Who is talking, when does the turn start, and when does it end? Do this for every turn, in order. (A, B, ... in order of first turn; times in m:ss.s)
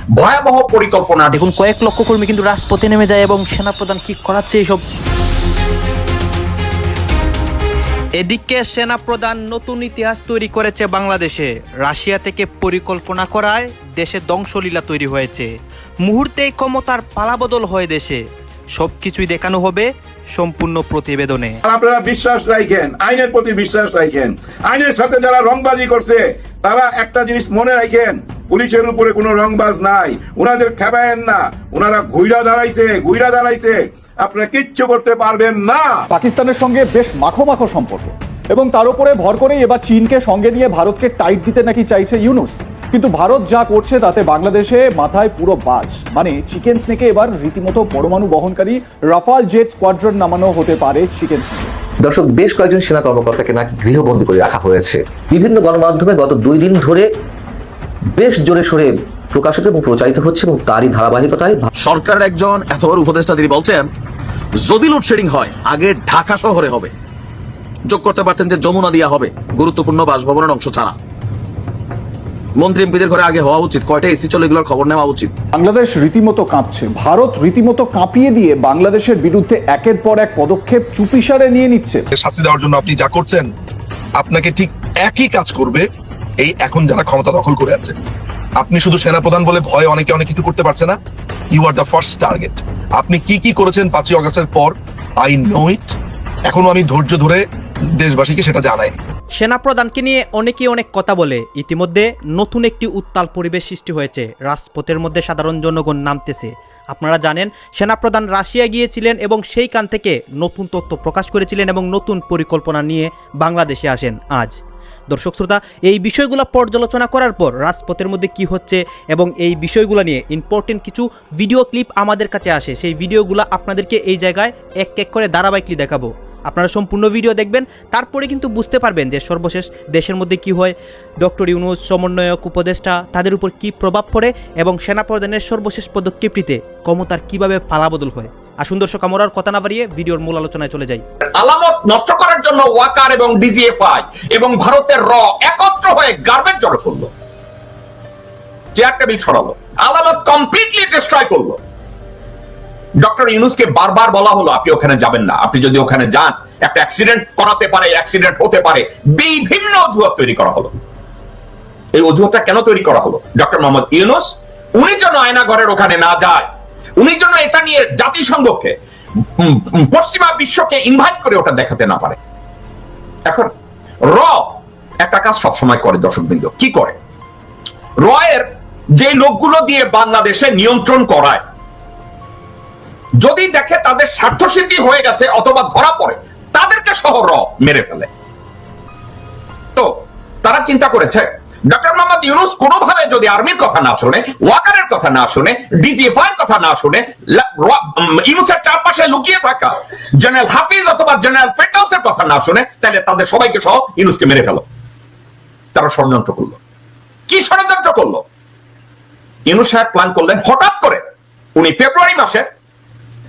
0:00.2-0:01.4 A
0:01.3-0:04.8 B
0:08.2-0:15.5 B
0:16.0-0:18.2 B
0:18.7-0:21.6 B
0:21.7-0:35.9 C
0:36.1-0:51.7 D
0:52.0-0:57.1 E
0:58.2-1:01.7 E
1:01.8-1:03.9 F
1:04.6-1:06.9 F
1:07.9-1:11.0 F
1:12.6-1:15.3 F
1:15.5-1:22.0 D
1:22.1-1:23.5 G
1:24.2-1:25.9 G
1:26.4-1:28.0 G
1:28.6-1:31.0 G
1:31.5-1:37.4 G
1:37.9-1:39.0 G
1:39.3-1:54.6 B
1:55.1-2:21.0 B
2:21.4-2:27.1 A
2:28.8-2:31.6 A
2:33.0-2:40.7 A
2:41.9-2:46.5 A
2:47.0-2:48.8 A
2:49.4-2:52.2 A
2:53.2-2:53.5 A
2:54.1-2:56.9 A
2:58.0-2:58.5 A
2:59.0-3:01.4 A
3:03.2-3:08.1 A
3:10.4-3:24.6 A
3:25.8-3:26.6 A
3:27.3-3:28.2 A
3:29.4-3:31.0 A
3:31.6-3:32.4 A